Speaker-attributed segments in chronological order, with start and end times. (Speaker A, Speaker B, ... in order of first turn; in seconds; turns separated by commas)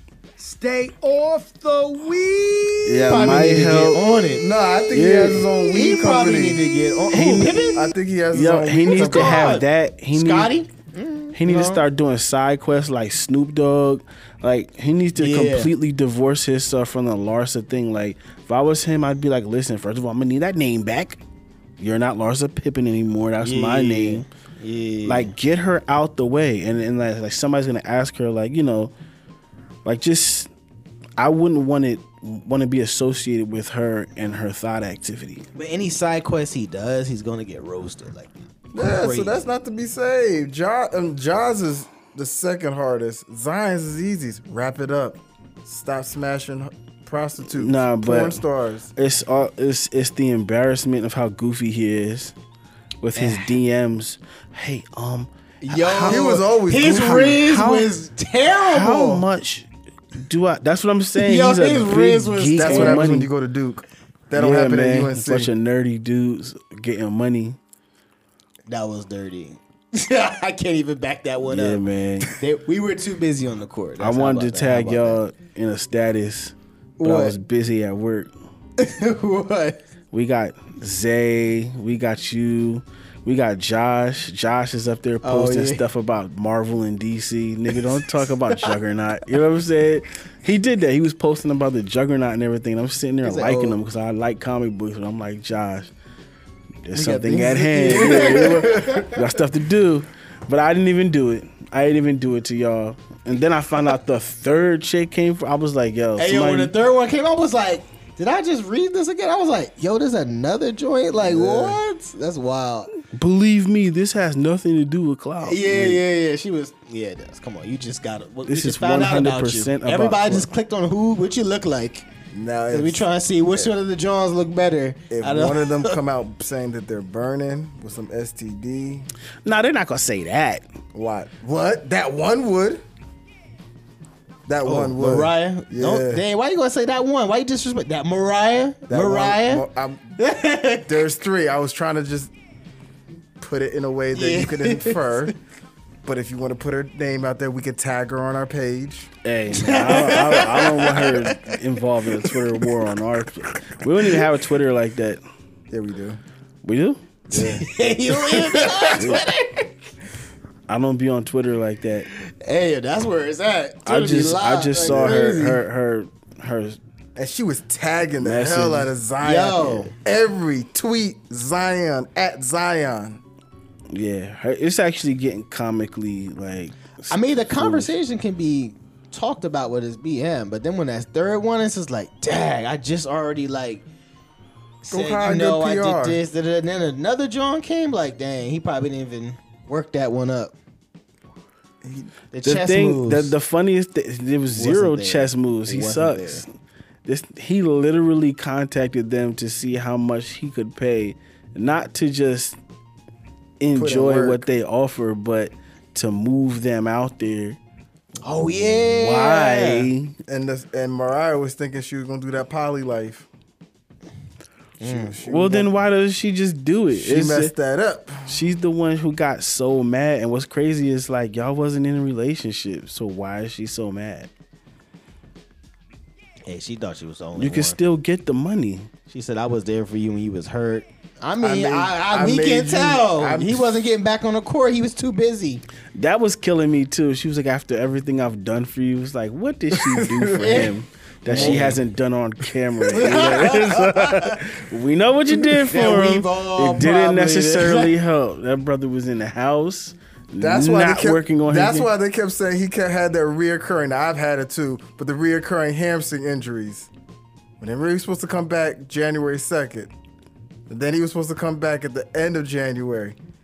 Speaker A: 0.4-3.7, Speaker B: 2.9-4.0, Speaker C: 3.0-4.5, Speaker A: 4.2-9.6, Speaker B: 4.9-5.5, Speaker C: 5.6-7.9, Speaker B: 7.1-7.8, Speaker B: 8.3-10.5, Speaker C: 8.9-11.8, Speaker B: 11.3-21.2, Speaker C: 15.2-15.7, Speaker B: 21.8-24.2, Speaker C: 23.4-25.3, Speaker B: 25.1-28.9, Speaker B: 29.8-30.5, Speaker B: 31.2-35.5, Speaker C: 35.5-39.4, Speaker A: 38.7-48.9, Speaker B: 47.5-48.4, Speaker B: 49.0-52.3, Speaker B: 53.0-56.4, Speaker C: 53.1-53.5, Speaker C: 55.6-59.2, Speaker A: 56.0-57.4, Speaker B: 57.0-57.9, Speaker B: 58.5-63.3, Speaker C: 61.2-63.0, Speaker A: 62.6-65.5, Speaker B: 64.3-67.6, Speaker C: 68.7-71.8, Speaker B: 71.5-72.3, Speaker C: 72.3-75.2, Speaker B: 74.0-78.3, Speaker C: 77.0-77.3, Speaker C: 78.8-79.8, Speaker B: 80.1-95.9, Speaker C: 85.2-85.8, Speaker C: 87.7-88.0, Speaker C: 93.2-93.8, Speaker B: 96.8-106.7, Speaker C: 96.9-99.2, Speaker A: 97.9-99.0, Speaker C: 106.2-112.9, Speaker A: 111.2-111.8, Speaker B: 113.1-116.0, Speaker C: 115.4-122.0, Speaker B: 118.5-120.5, Speaker A: 122.3-123.7, Speaker C: 122.7-126.0, Speaker A: 125.1-129.1, Speaker B: 129.4-130.6, Speaker A: 130.9-132.8, Speaker A: 134.5-136.2, Speaker C: 134.6-139.6, Speaker A: 138.9-140.2, Speaker C: 140.2-141.1, Speaker A: 140.8-142.3, Speaker A: 143.4-145.3, Speaker C: 144.1-145.3, Speaker A: 146.0-149.1, Speaker B: 149.2-155.2, Speaker C: 149.5-151.6, Speaker C: 152.2-152.7, Speaker A: 155.7-156.2, Speaker B: 156.6-157.0, Speaker C: 157.3-159.7, Speaker A: 157.3-157.6, Speaker A: 158.3-159.2, Speaker B: 159.0-159.2, Speaker B: 160.7-162.1, Speaker C: 162.1-165.6, Speaker B: 163.8-166.8, Speaker A: 164.8-165.2, Speaker A: 167.2-173.2, Speaker B: 168.2-168.9, Speaker C: 169.2-169.9, Speaker B: 173.9-177.9, Speaker C: 177.1-183.8, Speaker C: 184.8-190.5, Speaker A: 184.9-186.2, Speaker A: 191.8-192.1, Speaker C: 192.3-193.3, Speaker B: 192.4-196.5, Speaker C: 194.5-196.4, Speaker B: 197.0-202.6, Speaker B: 203.6-207.6, Speaker A: 203.7-204.5, Speaker C: 208.2-209.9, Speaker B: 208.6-210.2, Speaker A: 210.3-213.3, Speaker C: 214.8-215.2, Speaker A: 214.8-215.7, Speaker B: 215.2-217.5, Speaker A: 216.9-218.4, Speaker B: 218.3-224.3, Speaker C: 226.4-227.8, Speaker B: 227.4-228.9, Speaker C: 229.1-235.6, Speaker A: 231.4-233.9, Speaker B: 235.9-251.9, Speaker A: 239.8-240.6, Speaker C: 240.4-240.7, Speaker A: 241.3-241.8, Speaker C: 241.3-241.8, Speaker C: 242.9-244.4, Speaker C: 245.4-247.9, Speaker A: 250.4-256.9, Speaker A: 257.6-259.9, Speaker A: 260.7-263.2